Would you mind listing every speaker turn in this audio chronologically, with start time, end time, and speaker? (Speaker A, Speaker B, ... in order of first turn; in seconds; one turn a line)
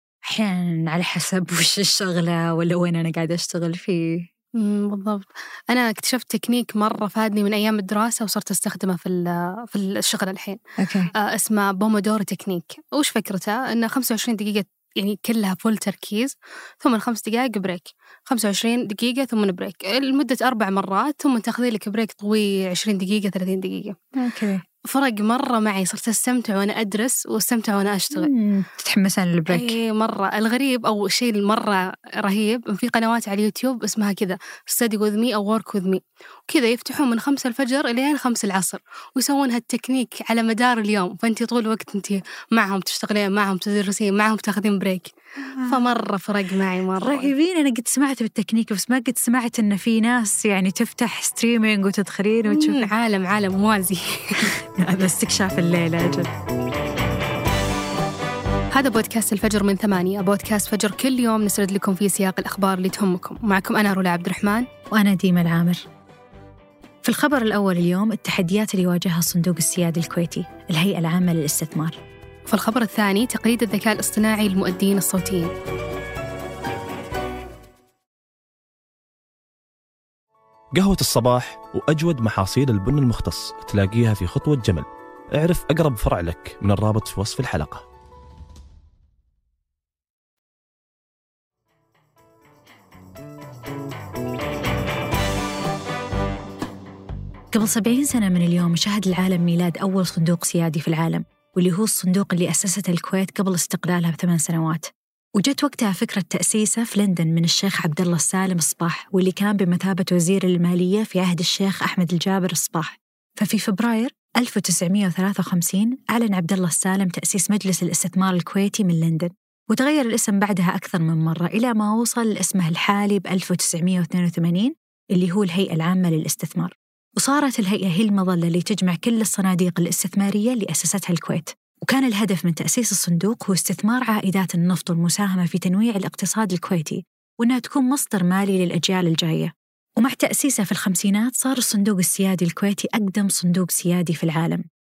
Speaker A: 0.2-4.3
Speaker B: 4.6-10.6
Speaker A: 10.8-11.1
Speaker B: 11.2-24.0
Speaker A: 24.2-24.6
Speaker B: 24.9-28.3
Speaker A: 28.1-29.8
Speaker B: 29.5-45.1
Speaker A: 45.5-45.8
Speaker B: 45.7-47.3
Speaker A: 47.0-52.9
Speaker B: 52.5-54.5
Speaker A: 54.6-56.3
Speaker B: 58.7-64.7
Speaker A: 64.9-65.8
Speaker A: 67.0-72.0
Speaker B: 72.5-75.5
Speaker C: 80.7-87.8
Speaker A: 97.5-144.6